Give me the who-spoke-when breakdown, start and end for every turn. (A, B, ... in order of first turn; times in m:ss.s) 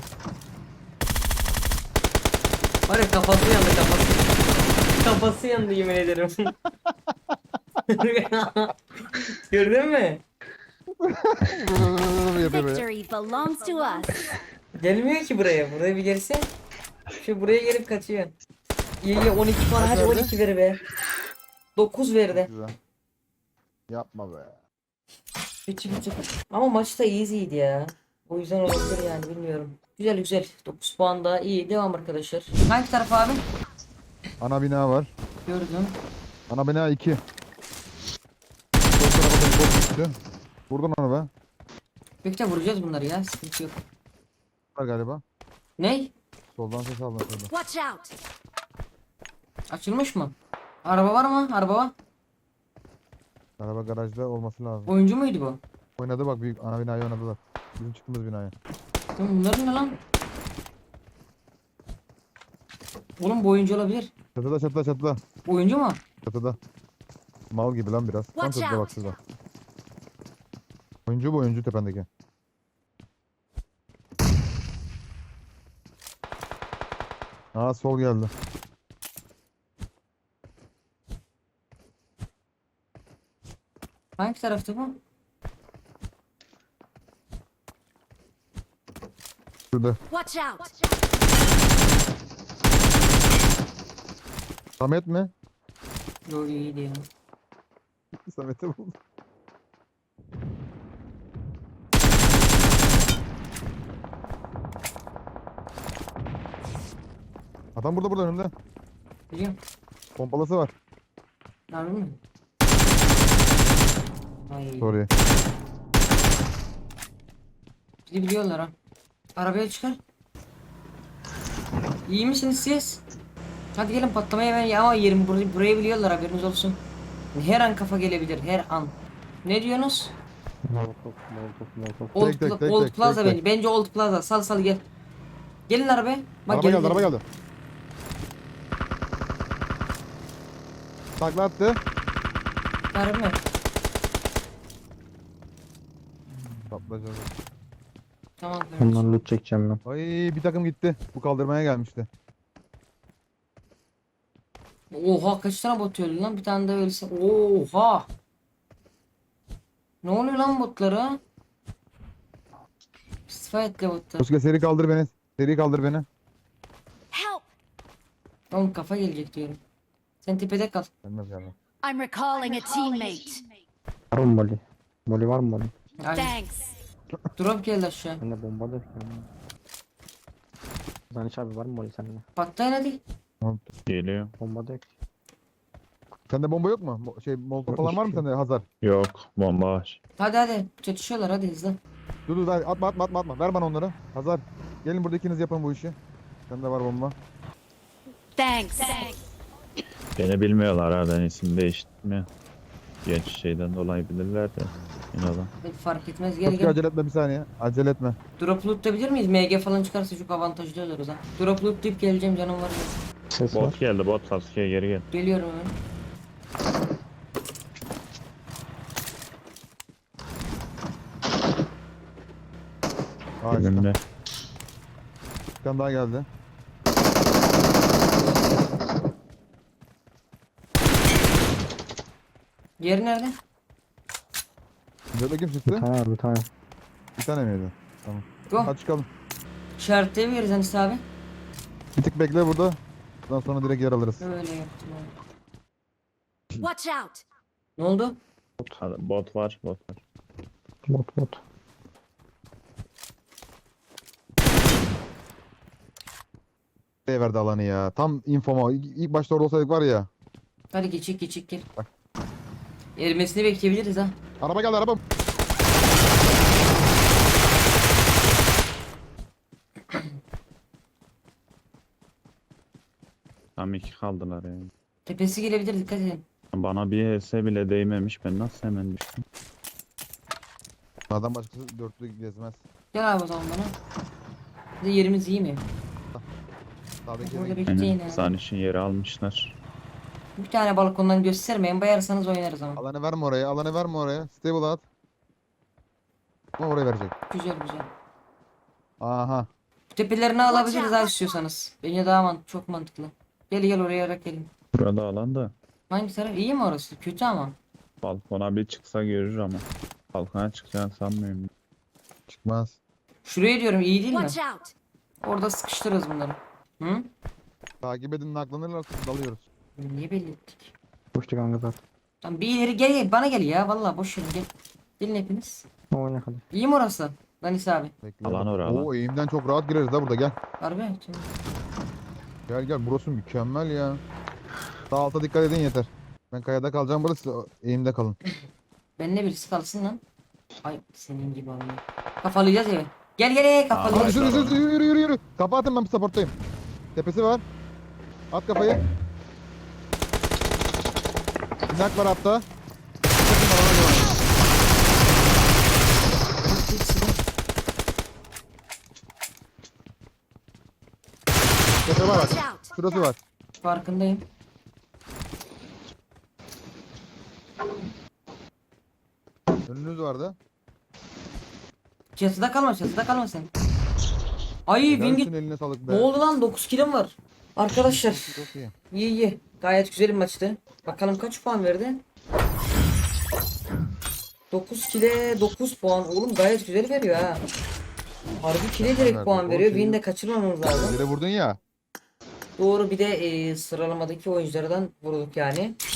0:02.9-0:04.4 A
0:04.9-0:06.6 A
0:07.9-0:10.2 A
0:11.0-0:12.9 B
0:12.4-0:14.4 C
0:14.8-0:16.5 A
0:17.2-0:18.3 A
0:19.0-0:20.8 A
0:19.8-0:20.3 B
0:21.8-0:22.5 A
0:22.3-0:22.8 B
0:23.9-0:24.6 B
0:25.7-0:33.5 A
0:34.4-0:35.1 B
0:35.5-0:36.0 A
0:36.5-0:37.2 B
0:39.0-0:40.2 B
0:40.7-0:41.3 B
0:42.2-0:43.8 A
0:44.8-0:45.2 B
0:45.8-0:46.1 A
0:46.5-0:47.5 B
0:49.7-0:52.0 A
0:53.6-0:54.9 B
0:54.9-0:55.6 A
0:56.0-0:58.5 B
0:59.2-1:00.0 A
1:03.2-1:04.1 A
1:04.4-1:05.2 B
1:05.5-1:06.0 A
1:06.3-1:06.6 B
1:07.5-1:09.2 B
1:11.1-1:12.1 B
1:17.5-1:18.3 B
1:24.2-1:25.0 A
1:29.7-1:30.0 B
1:34.8-1:35.3 B
1:36.3-1:37.1 A
1:38.2-1:39.0 B
1:47.8-1:48.5 B
1:49.3-1:49.6 A
1:50.2-1:50.7 B
1:51.7-1:52.2 A
1:54.5-1:55.0 A
1:54.8-1:55.1 B
1:58.1-1:58.7 A
1:59.4-2:00.0 A
2:02.1-2:03.0 A
2:03.8-2:06.8 A
2:07.3-2:10.2 A
2:10.7-2:12.2 D
2:12.2-2:14.8 A
2:12.2-2:13.4 B
2:15.7-2:17.1 A
2:16.5-2:17.2 B
2:21.2-2:21.8 B
2:22.9-2:23.4 A
2:26.7-2:27.3 B
2:28.4-2:29.1 A
2:28.8-2:29.8 D
2:29.9-2:32.1 B
2:34.9-2:38.1 A
2:40.0-2:41.2 A
2:43.3-2:44.3 A
2:44.2-2:46.1 B
2:47.1-2:47.4 C
2:48.5-2:49.6 A
2:50.2-2:50.9 A
2:51.0-2:51.6 B
2:51.8-2:53.5 C
2:54.1-2:55.7 D
2:56.0-2:56.4 A
2:56.1-2:56.7 C
2:57.4-2:58.2 A
2:58.2-2:59.3 D
3:01.1-3:02.2 D
3:02.4-3:03.0 A
3:03.9-3:04.3 E
3:04.4-3:04.9 D
3:06.3-3:08.6 B
3:07.7-3:08.2 D
3:08.8-3:10.0 E
3:10.2-3:11.8 A
3:12.3-3:16.0 B
3:16.5-3:17.2 B
3:18.4-3:19.2 C
3:20.2-3:22.3 E
3:23.0-3:25.5 E
3:25.6-3:26.8 A
3:26.4-3:28.2 B
3:28.4-3:33.0 A
3:33.3-3:33.8 D
3:33.5-3:35.1 E
3:35.1-3:35.8 A
3:43.4-3:43.9 B
3:43.5-3:44.0 E
3:45.6-3:46.3 B
3:52.8-3:53.4 A
3:55.1-3:55.9 B
3:55.7-3:56.5 D
3:57.2-3:59.1 B
3:59.8-4:01.0 A
4:02.0-4:04.2 B
4:04.2-4:05.2 A
4:07.8-4:08.2 A
4:08.8-4:10.0 E
4:10.9-4:11.4 D
4:17.1-4:20.1 B
4:20.7-4:21.7 A
4:23.0-4:24.2 A
4:24.4-4:25.0 B
4:33.6-4:34.7 E
4:35.1-4:36.2 A
4:36.5-4:39.2 E
4:41.1-4:42.6 B
4:42.9-4:43.8 A
4:44.8-4:45.6 A
4:47.1-4:47.6 B
4:47.2-4:48.3 A
4:47.7-4:49.6 E
4:50.4-4:52.8 A
4:52.8-4:54.8 B
4:56.6-4:57.1 B
4:57.3-4:57.9 A
4:59.0-4:59.5 B
4:59.9-5:04.5 A
5:04.7-5:05.5 E
5:05.9-5:07.6 A
5:08.0-5:11.5 E
5:12.3-5:12.8 B
5:13.2-5:14.5 A
5:15.2-5:17.1 A
5:17.8-5:19.4 B
5:19.8-5:20.7 A
5:21.2-5:21.8 D
5:22.2-5:25.7 A
5:25.9-5:26.4 D
5:26.5-5:27.9 A
5:28.0-5:30.4 B
5:28.2-5:28.9 E
5:30.6-5:31.3 A
5:32.5-5:34.0 B
5:34.9-5:38.2 B
5:39.0-5:40.0 A
5:40.6-5:44.2 A
5:43.7-5:44.6 E
5:43.9-5:46.3 B
5:47.0-5:47.4 B
5:48.3-5:48.8 B
5:51.7-5:52.4 B
5:53.2-5:54.2 B
5:56.5-5:57.2 A
6:01.8-6:03.2 B
6:03.6-6:04.2 A
6:09.7-6:10.4 B
6:12.2-6:13.5 A
6:14.7-6:15.3 A
6:14.9-6:16.1 B
6:15.9-6:18.4 A
6:17.8-6:18.7 B
6:18.9-6:22.0 A
6:24.5-6:27.4 A
6:28.4-6:31.0 A
6:28.8-6:30.0 B
6:30.7-6:31.6 B
6:32.6-6:35.8 A